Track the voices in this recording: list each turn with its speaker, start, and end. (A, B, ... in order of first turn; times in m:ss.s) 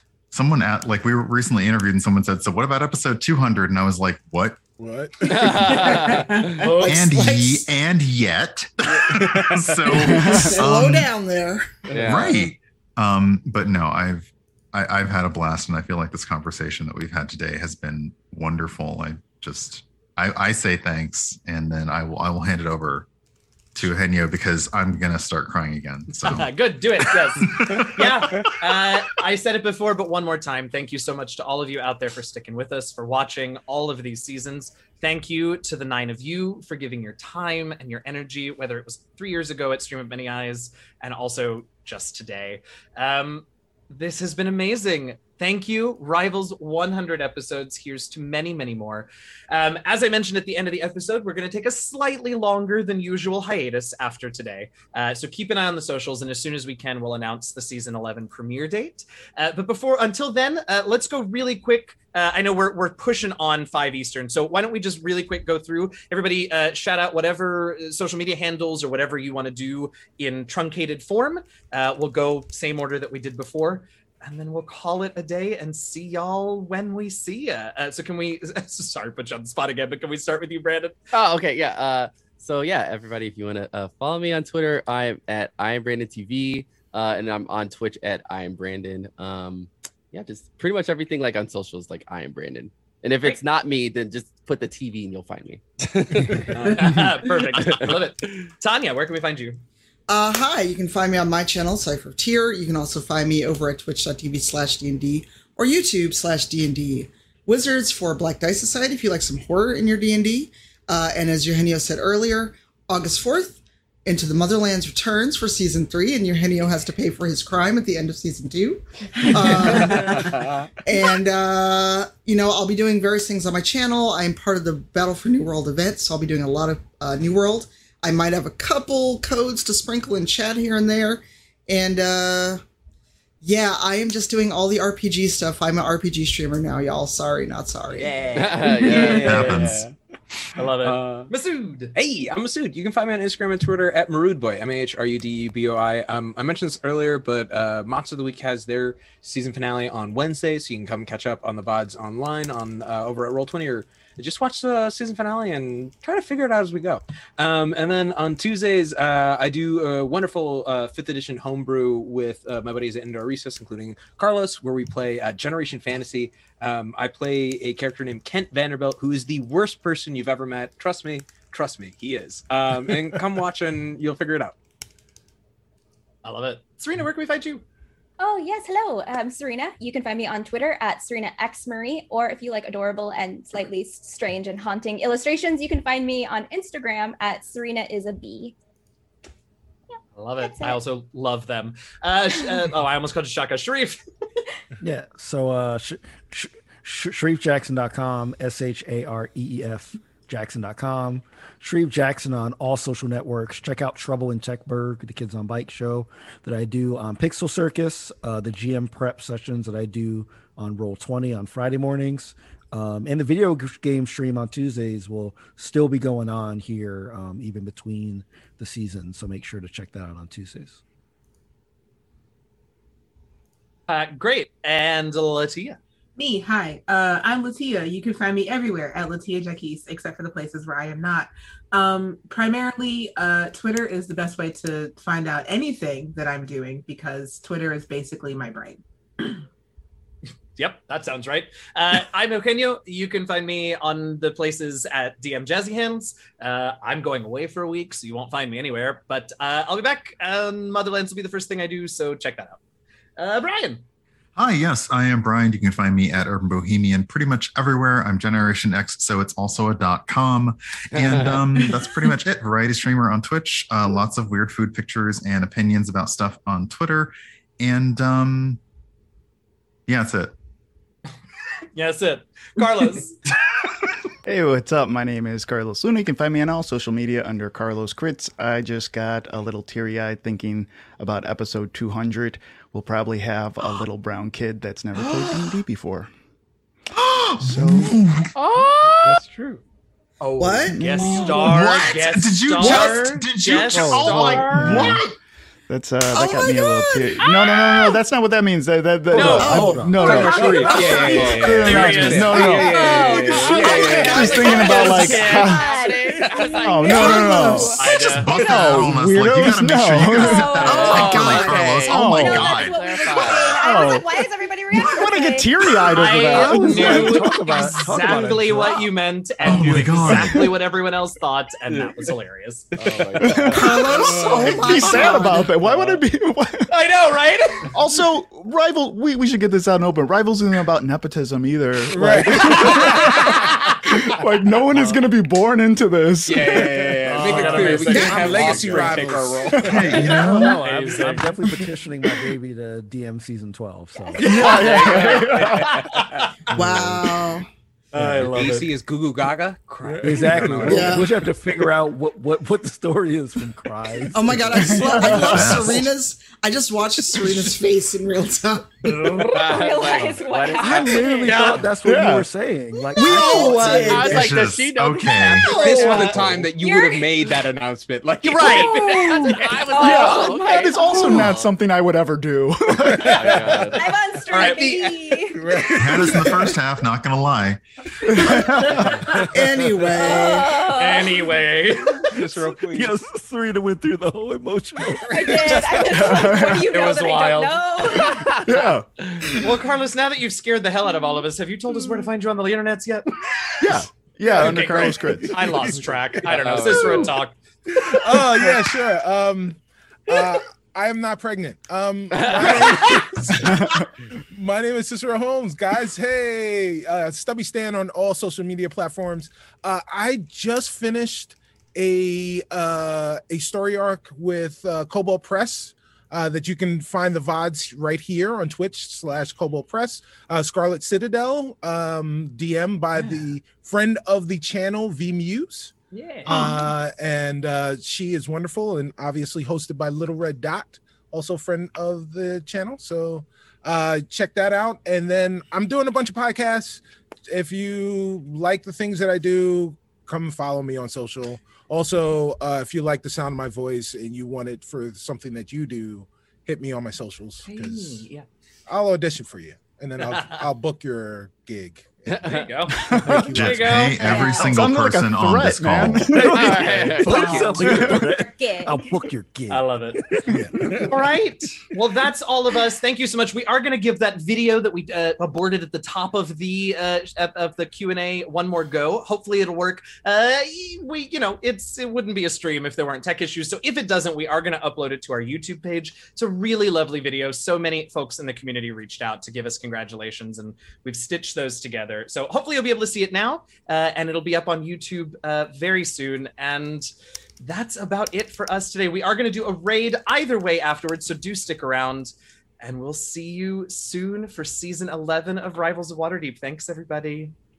0:00.3-0:04.6 A
0:04.8-0:06.2 B
0:05.3-0:06.3 C
0:05.5-0:07.0 D
0:06.6-0:07.7 E
0:06.9-0:11.1 A
0:09.2-0:09.7 B
0:09.9-0:11.8 E
0:11.9-0:12.5 C
0:11.9-0:12.2 B
0:12.0-0:23.1 A
0:23.8-0:28.6 A
0:26.1-1:21.0 F
1:21.1-1:36.6 C
1:36.3-1:37.3 G
1:36.7-1:39.6 F
1:37.4-1:38.0 C
1:40.1-2:00.3 E
1:59.2-2:00.4 D
2:00.8-2:12.6 E
2:13.4-2:18.5 E
2:18.0-2:19.9 G
2:18.3-2:19.5 C
2:18.6-2:19.3 D
2:19.2-2:19.9 A
2:20.6-2:21.9 F
2:20.8-2:21.3 G
2:21.9-2:54.6 G
2:56.2-2:57.6 F
2:58.2-3:08.6 H
3:10.2-3:14.0 F
3:10.4-3:10.8 H
3:14.8-3:40.8 I
3:43.9-3:45.8 F
3:46.2-3:59.4 D
4:00.6-4:12.6 F
4:13.2-4:13.8 F
4:14.4-4:28.6 A
4:20.9-4:21.7 C
4:29.9-4:30.3 A
4:31.8-4:33.2 F
4:34.3-4:46.1 J
4:46.9-4:48.3 A
4:47.4-4:48.0 J
4:48.4-4:49.2 C
4:49.0-4:49.6 G
4:50.2-4:55.0 F
4:50.4-4:51.6 E
4:50.7-4:51.5 J
4:51.4-4:55.2 A
4:52.6-4:53.0 E
4:54.1-4:54.5 C
4:54.5-4:55.0 J
4:54.5-4:54.9 E
4:55.7-5:05.7 J
4:56.1-4:57.2 H
4:59.1-4:59.7 F
4:59.2-5:00.3 I
4:59.2-5:01.8 E
5:00.0-5:04.3 G
5:00.1-5:01.7 D
5:01.6-5:02.9 F
5:02.4-5:08.1 H
5:03.0-5:07.4 C
5:03.6-5:05.6 F
5:06.6-5:10.6 J
5:07.8-5:08.6 F
5:08.1-5:12.9 A
5:10.0-5:16.2 H
5:10.5-5:11.8 E
5:10.6-5:13.7 C
5:11.8-5:12.5 J
5:13.5-5:14.1 J
5:14.7-5:17.3 J
5:15.9-5:22.7 F
5:16.3-5:18.9 I
5:19.4-5:20.5 A
5:19.5-5:20.1 I
5:21.7-5:22.1 G
5:22.7-5:25.0 G
5:23.2-5:26.7 J
5:23.3-5:23.6 C
5:23.5-5:25.5 E
5:23.9-5:24.8 B
5:25.6-5:25.9 G
5:26.7-5:27.7 F
5:27.7-5:37.2 J
5:31.9-5:33.2 B
5:36.3-5:40.0 G
5:37.1-5:39.1 F
5:37.2-5:40.4 B
5:39.6-5:40.6 A
5:40.0-5:44.4 I
5:40.2-5:41.3 F
5:44.2-5:45.8 J
5:44.2-5:46.2 G
5:44.4-5:46.3 F
5:46.5-5:47.0 I
5:46.5-5:47.5 E
5:47.9-5:48.7 F
5:48.0-5:48.4 I
5:48.2-5:51.0 G
5:49.8-5:50.8 B
5:50.0-5:55.8 I
5:50.7-5:51.1 E
5:54.1-5:59.2 E
5:54.6-5:55.8 J
5:55.2-5:55.8 A
5:58.8-5:59.4 F
5:59.2-6:01.5 H
5:59.3-6:01.1 C
6:00.6-6:04.2 I
6:01.8-6:02.3 J
6:03.0-6:04.4 E
6:03.1-6:06.2 C
6:03.3-6:03.8 J
6:04.1-6:05.6 A
6:05.4-6:08.9 G
6:05.5-6:06.3 F
6:05.5-6:05.9 H
6:06.5-6:07.3 H
6:08.2-6:09.3 F
6:08.5-6:11.5 C
6:08.6-6:13.6 J
6:09.2-6:11.4 H
6:12.8-6:13.8 B
6:13.0-6:13.8 C
6:13.6-6:16.2 H
6:14.3-6:15.6 F
6:15.3-6:16.6 B
6:15.8-6:17.6 A
6:18.2-6:19.0 J
6:19.3-6:20.6 E
6:20.0-6:21.3 H
6:20.1-6:22.1 F
6:22.1-6:23.0 G
6:22.7-6:25.7 I
6:25.0-6:28.5 H
6:25.8-6:26.7 J
6:26.1-6:28.2 F
6:28.1-6:28.4 C
6:28.4-6:29.5 J
6:29.3-6:33.2 F
6:30.9-6:31.2 H
6:31.8-6:32.0 H
6:33.6-6:35.7 J
6:34.3-6:37.4 F
6:34.5-6:35.2 B
6:36.2-6:37.2 C
6:37.8-7:05.7 B
6:42.1-6:43.1 C
6:43.3-6:43.9 J
7:05.9-7:06.5 F
7:06.2-7:28.1 B
7:27.4-7:28.3 F
7:28.7-7:32.3 B
7:30.0-7:30.5 F
7:32.1-7:32.5 C
7:32.2-7:34.7 F
7:32.9-7:34.3 B
7:32.9-7:33.3 J
7:33.4-7:36.1 A
7:34.0-7:34.4 H
7:34.3-7:36.5 J
7:36.1-7:40.9 I
7:36.4-7:37.5 C
7:36.6-7:36.9 B
7:37.1-7:37.7 F
7:37.1-7:38.9 H
7:37.6-7:38.1 J
7:39.5-8:17.3 F
7:40.6-7:40.9 B